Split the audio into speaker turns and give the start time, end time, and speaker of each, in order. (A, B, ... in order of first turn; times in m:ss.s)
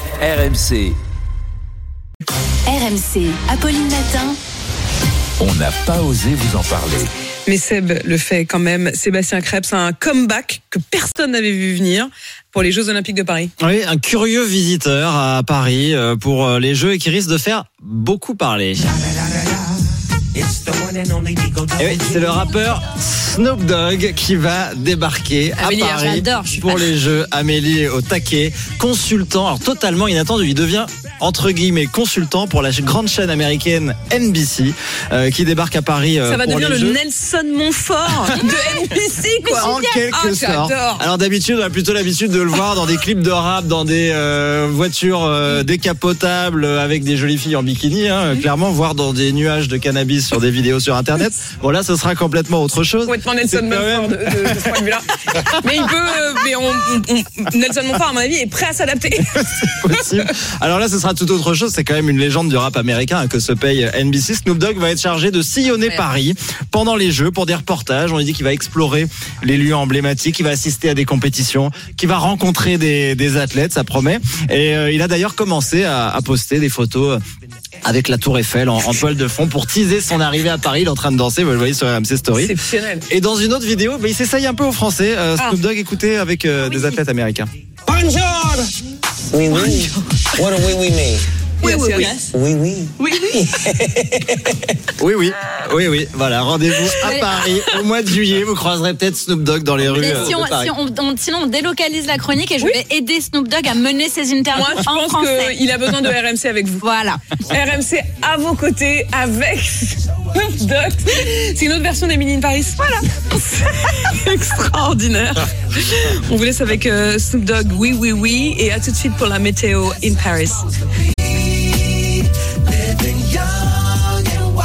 0:00.2-0:01.0 A
0:02.7-0:04.4 B
0:05.4-0:07.1 A
0:07.5-0:13.5 C
0:13.6-0:19.1 D
0:20.6-0:21.5 E
0:21.8-0:37.0 D
0:25.6-0:26.9 B
0:36.3-0:41.0 C
0:39.4-0:40.0 B
0:39.6-0:54.8 D
0:53.1-1:00.2 C
0:59.3-1:17.2 D
1:17.8-1:22.6 D
1:22.3-1:23.0 C
1:23.1-1:27.5 D
1:27.9-1:28.7 E
1:29.3-1:31.2 E
1:29.6-1:29.8 B
1:31.6-1:32.3 C
1:31.6-1:32.3 B
1:32.3-1:34.7 E
1:33.0-1:33.4 C
1:35.0-1:40.7 D
1:37.0-1:37.7 B
1:39.8-1:45.5 B
1:44.6-1:46.9 C
1:46.8-1:47.2 B
1:47.4-2:00.7 C
2:03.1-2:03.4 C